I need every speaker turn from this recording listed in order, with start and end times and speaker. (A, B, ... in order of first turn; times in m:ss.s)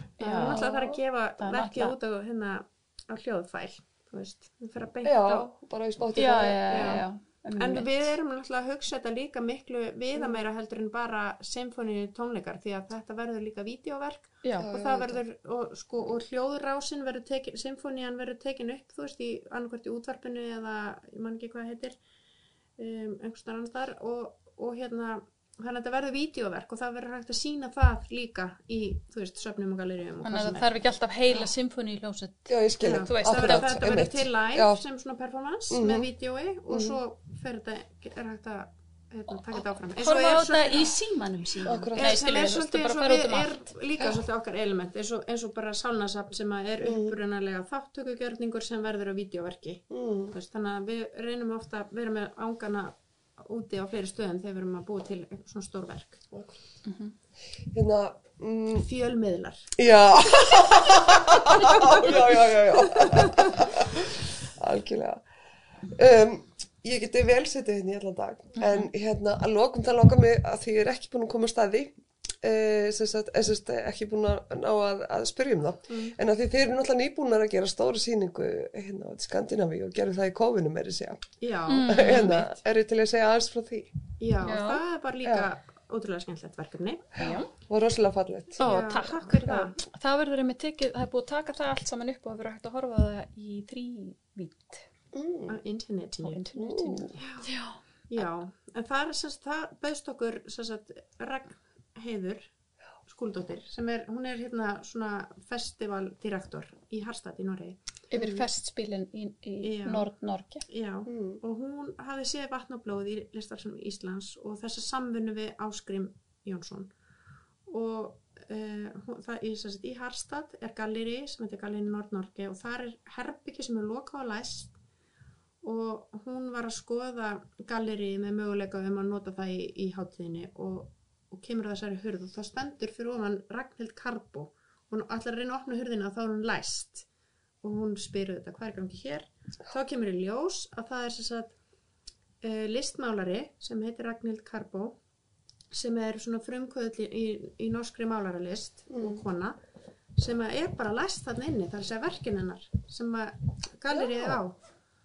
0:00.2-0:00.7 A
0:00.2-0:05.5 B
0:00.4-0:00.9 C
0:01.4-0:02.0 A
0:05.0-0:07.0 C
0:06.2-0:08.0 A
0:06.7-0:07.0 B
0:07.6-0:22.0 B
0:14.4-0:14.7 A
0:14.6-0:15.1 C
0:22.8-0:30.6 B
0:30.2-0:33.8 A
0:32.5-0:34.8 C
0:32.8-0:41.0 B
0:35.7-0:36.1 C
0:36.7-0:37.0 C
0:39.9-0:43.6 A
0:41.6-0:42.2 C
0:41.9-0:56.2 B
0:46.8-0:47.1 C
0:49.9-0:50.3 C
0:56.3-0:56.6 C
0:56.8-0:57.1 A
0:57.7-0:58.9 C
0:58.8-0:59.7 B
0:59.8-1:05.2 C
1:00.5-1:00.8 B
1:01.6-1:02.3 B
1:02.9-1:03.5 B
1:05.9-1:21.3 C
1:08.6-1:08.8 A
1:15.9-1:16.1 B
1:21.4-1:22.3 B
1:21.7-1:22.5 A
1:21.8-1:23.9 C
1:24.2-1:27.3 B
1:24.4-1:24.8 A
1:27.2-1:27.5 A
1:27.6-1:28.6 C
1:28.6-1:34.9 A
1:28.6-1:29.8 B
1:35.1-1:35.6 C
1:35.5-1:36.4 B
1:36.2-1:38.3 A
1:36.5-1:37.2 C
1:37.2-1:37.5 B
1:38.1-1:42.5 B
1:43.0-1:48.5 B
1:48.1-1:50.6 A
1:49.6-1:50.1 B
1:50.7-1:56.9 B
1:51.0-1:51.4 C
1:57.6-2:04.8 B
2:05.6-2:17.1 B
2:17.6-2:21.6 B
2:22.4-2:25.0 B
2:25.7-2:29.6 B
2:28.9-2:29.2 C
2:30.2-2:34.6 B
2:33.9-2:34.4 C